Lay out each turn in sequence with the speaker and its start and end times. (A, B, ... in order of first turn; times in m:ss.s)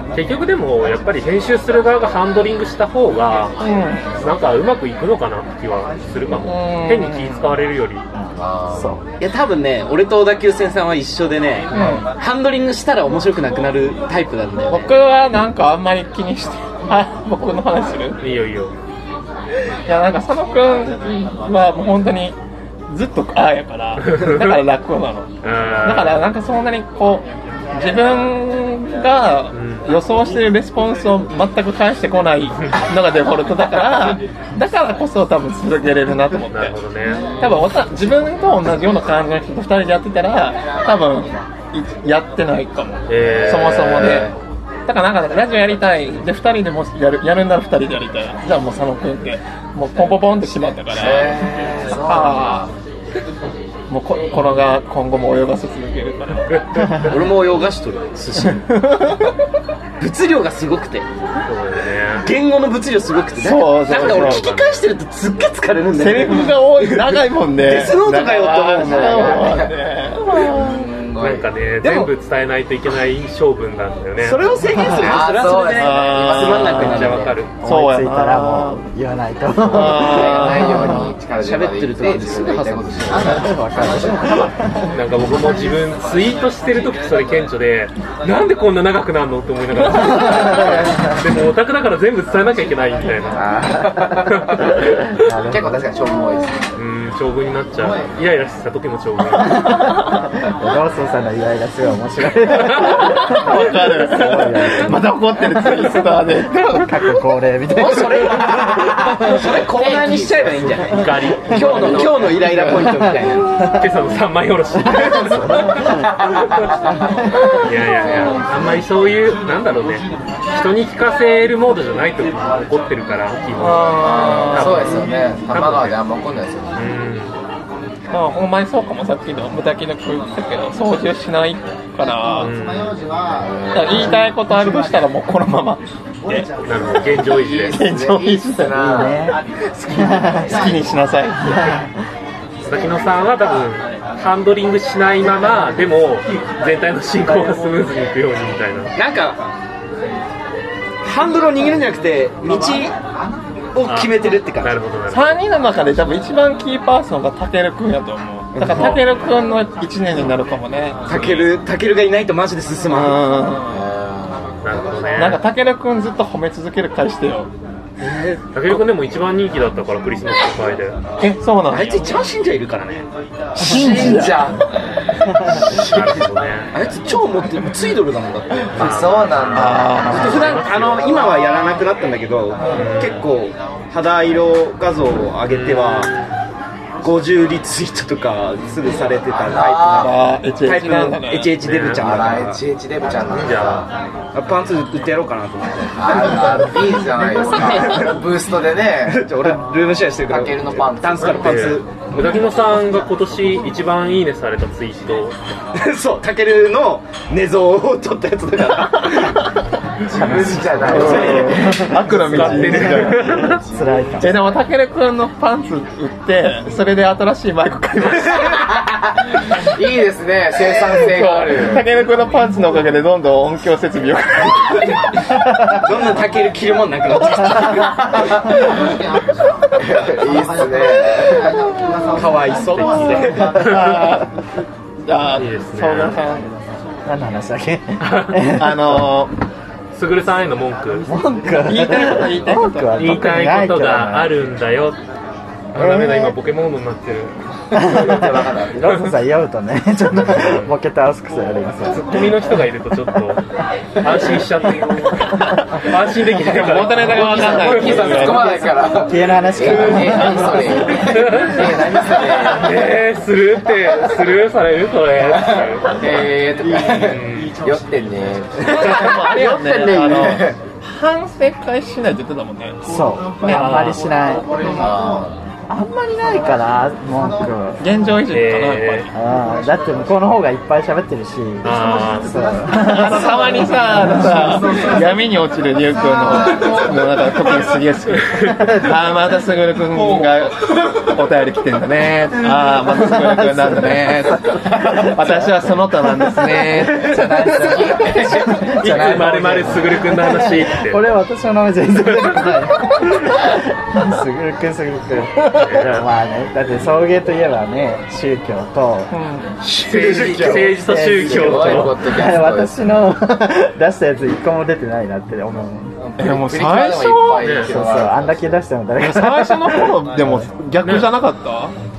0:00.1-0:03.6 A
0:03.6-0:04.2 B
0:04.2-0:08.0 A
0:06.3-0:07.6 B
0:08.1-0:09.0 C
0:08.4-0:09.0 D
0:09.2-0:14.9 E
0:11.7-0:12.0 B
0:14.7-0:18.2 B
0:18.2-0:18.7 A
0:19.8-0:22.4 B
0:22.9-0:25.3 B
0:24.0-0:24.6 A
0:25.4-0:26.2 A
0:25.8-0:36.8 B
0:29.5-0:29.9 A
0:36.5-0:37.4 A
0:37.4-0:44.3 B
0:43.1-0:44.3 A
0:43.3-0:44.3 D
0:44.8-0:51.4 B
0:50.8-0:52.7 D
0:52.0-0:52.7 B
0:53.9-0:56.6 B
0:56.5-0:57.2 A
0:57.1-0:58.6 E
0:58.4-0:59.3 B
1:00.0-1:01.1 E
1:01.4-1:02.3 A
1:02.2-1:09.6 E
1:03.4-1:04.5 B
1:03.9-1:04.9 A
1:05.9-1:10.9 B
1:08.8-1:09.7 D
1:10.3-1:11.5 D
1:11.2-1:14.4 A
1:11.8-1:12.1 E
1:14.2-1:17.3 E
1:14.7-1:15.1 C
1:14.9-1:17.3 D
1:15.6-1:18.8 B
1:16.8-1:17.5 A
1:17.6-1:21.1 C
1:19.6-1:21.0 B
1:19.7-1:23.5 D
1:21.4-1:23.3 E
1:23.2-1:24.9 C
1:24.9-1:33.5 A
1:30.5-1:31.1 C
1:33.3-1:34.8 D
1:34.3-1:34.6 A
1:35.0-1:35.9 C
1:35.5-1:36.7 D
1:36.8-1:39.9 A
1:39.4-1:48.8 C
1:42.6-1:43.5 A
1:42.8-1:47.1 B
1:47.7-1:53.6 E
1:48.2-1:50.9 D
1:50.9-1:52.3 A
1:51.5-1:52.6 D
1:52.8-1:53.8 C
1:53.6-1:56.5 A
1:54.9-1:56.0 C
1:55.9-1:57.0 D
1:57.5-2:06.0 A
1:58.0-1:58.4 D
2:03.6-2:05.0 B
2:04.0-2:06.9 D
2:06.7-2:07.4 A
2:08.1-2:12.5 B
2:12.3-2:13.4 A
2:13.3-2:14.2 D
2:13.7-2:16.5 B
2:16.6-2:17.8 A
2:17.1-2:19.2 D
2:17.7-2:19.1 B
2:18.8-2:20.7 C
2:20.0-2:21.8 B
2:21.5-2:21.9 C
2:22.6-2:28.9 A
2:29.0-2:29.4 E
2:31.0-2:32.9 E
2:33.7-2:34.8 E
2:33.8-2:35.4 A
2:35.1-2:41.4 B
2:38.5-2:39.0 E
2:38.6-2:39.0 A
2:41.0-2:43.2 E
2:42.9-2:43.9 B
2:43.7-2:44.8 D
2:44.6-2:45.4 A
2:45.1-2:47.5 B
2:48.0-2:48.8 E
2:48.5-2:51.0 A
2:51.2-2:52.1 B
2:51.7-2:53.0 E
2:53.6-2:54.5 B
2:53.6-2:54.6 D
2:55.4-2:56.2 D
2:55.5-2:56.7 A
2:56.7-2:59.1 E
2:58.7-3:01.2 A
2:58.8-3:00.4 D
2:59.5-3:00.8 B
3:00.0-3:06.1 E
3:02.7-3:03.2 A
3:05.5-3:06.4 A
3:07.0-3:12.6 E
3:09.5-3:10.1 D
3:09.9-3:11.6 B
3:11.6-3:12.0 A
3:12.0-3:13.9 D
3:13.3-3:13.9 A
3:14.3-3:16.2 E
3:16.0-3:19.3 D
3:17.6-3:18.1 E
3:19.1-3:22.4 E
3:20.3-3:21.7 D
3:21.2-3:25.4 A
3:25.7-3:29.5 E
3:30.0-3:34.4 D
3:30.1-3:33.1 C
3:30.8-3:33.5 B
3:30.9-3:31.6 E
3:32.1-3:33.6 A
3:33.7-3:34.4 C
3:34.2-3:38.6 B
3:38.4-3:41.8 D
3:40.9-3:45.0 B
3:45.6-3:48.1 E
3:49.8-3:51.6 D
3:52.1-3:53.5 E
3:52.7-3:54.0 A
3:53.4-3:54.3 B
3:55.0-3:56.5 B
3:55.3-3:56.2 A
3:57.0-3:59.1 C
3:58.0-3:58.5 A
3:58.5-3:59.3 B
3:59.9-4:01.1 A
4:01.1-4:04.3 C
4:01.5-4:03.2 B
4:03.0-4:05.0 A
4:05.7-4:07.4 A
4:05.7-4:06.3 C
4:07.7-4:09.0 D
4:07.7-4:12.3 C
4:10.2-4:10.7 A
4:11.9-4:13.4 A
4:14.0-4:18.4 A
4:16.3-4:18.6 B
4:16.8-4:23.0 D
4:18.6-4:21.3 C
4:21.0-4:21.8 A
4:22.3-4:26.1 A
4:25.2-4:30.6 D
4:26.9-4:27.6 A
4:28.6-4:32.8 B
4:32.8-4:34.5 C
4:33.4-4:33.9 B
4:33.4-4:34.0 A
4:34.7-4:35.5 D
4:35.7-4:37.8 C
4:37.8-4:39.1 B
4:38.3-4:39.1 A
4:39.1-4:44.3 C
4:41.6-4:42.4 A
4:42.7-4:57.8 B
4:53.0-4:54.6 C
4:56.3-4:59.7 D
4:57.1-5:09.1 C
4:58.2-5:01.0 A
5:05.6-5:06.0 A
5:09.1-5:09.6 B
5:09.6-5:12.0 A
5:09.6-5:12.8 D
5:10.8-5:16.0 C
5:16.0-5:18.6 D
5:16.2-5:17.6 B
5:17.4-5:17.7 A
5:17.6-5:20.5 C
5:19.0-5:21.7 B
5:20.8-5:21.1 A